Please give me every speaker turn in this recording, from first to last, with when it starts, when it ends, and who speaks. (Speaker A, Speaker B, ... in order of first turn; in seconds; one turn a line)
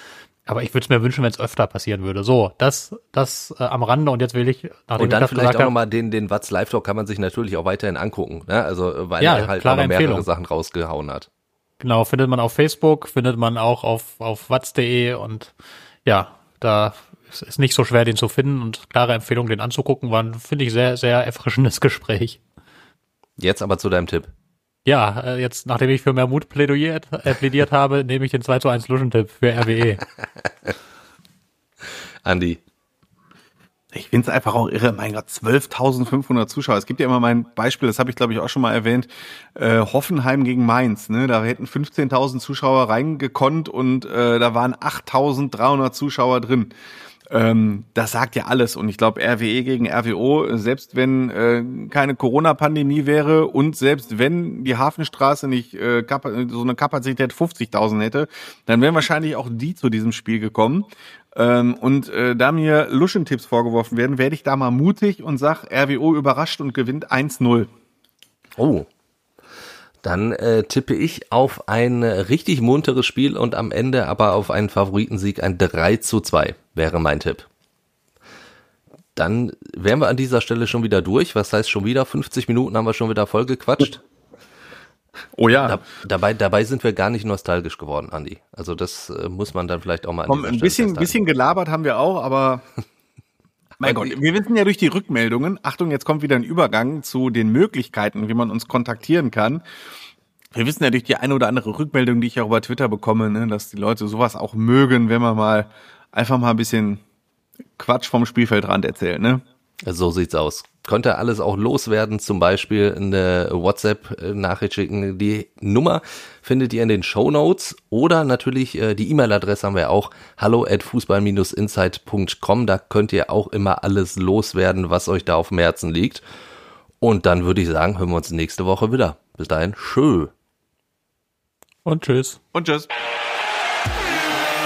Speaker A: 0.5-5.7
Speaker B: 5.0-11.3
Speaker A: 9.2-10.3
Speaker A: 11.8-15.5
Speaker A: 16.1-22.4
Speaker B: 23.4-24.3
Speaker A: 24.9-30.0
Speaker B: 32.2-32.6
Speaker C: 33.9-46.7
Speaker C: 47.3-67.7
Speaker B: 68.6-68.9
Speaker B: 70.0-77.5
Speaker B: 79.2-84.0
Speaker C: 85.4-85.8
Speaker B: 85.6-91.2
Speaker C: 90.3-92.6
Speaker B: 93.8-94.1
Speaker C: 93.8-99.6
Speaker C: 100.5-107.0
Speaker C: 107.8-109.4
Speaker B: 109.8-126.2
Speaker B: 127.0-130.3
Speaker A: 131.8-132.4
Speaker C: 132.5-132.9